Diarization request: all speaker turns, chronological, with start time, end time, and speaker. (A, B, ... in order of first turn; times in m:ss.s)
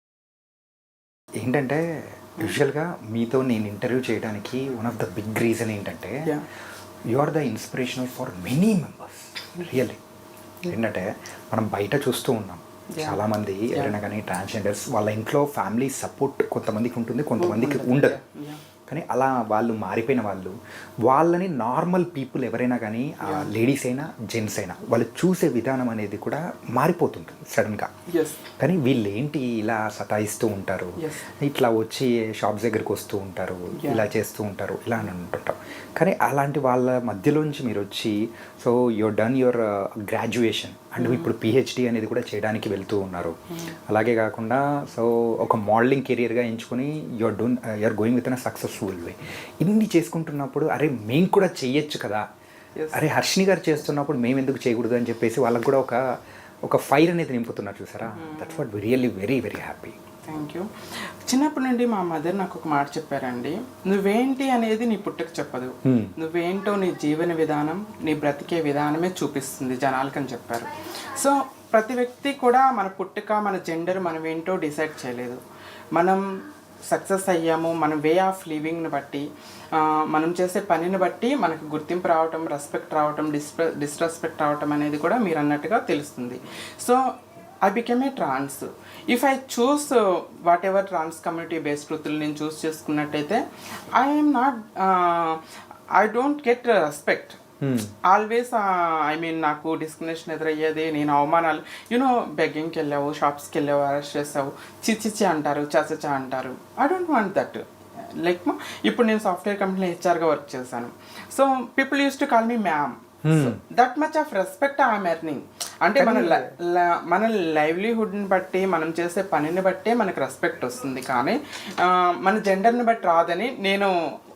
0:01.4-0:01.8 A
0:02.4-0:06.3 A
0:07.1-0:10.0 A
0:10.6-0:18.2 A
0:12.9-0:13.9 B
0:17.4-0:18.6 B
0:18.9-0:20.5 A
0:21.0-0:27.9 A
0:23.2-0:23.5 B
0:28.1-0:28.4 B
0:28.6-0:43.4 A
0:31.0-0:31.2 B
0:33.7-0:34.0 B
0:41.0-0:41.3 B
0:43.5-0:43.8 B
0:43.9-0:52.3 A
0:52.8-0:53.0 B
0:52.9-0:56.0 A
0:56.7-1:00.0 A
0:58.1-0:58.6 B
1:00.3-1:15.4 B
1:05.8-1:06.1 A
1:16.0-1:16.2 B
1:16.9-1:27.0 B
1:27.6-1:33.4 B
1:34.0-1:35.4 B
1:36.0-1:37.4 B
1:37.6-1:37.9 A
1:38.0-1:47.6 B
1:48.2-2:03.9 B
1:53.2-1:53.6 A
1:56.0-1:56.5 A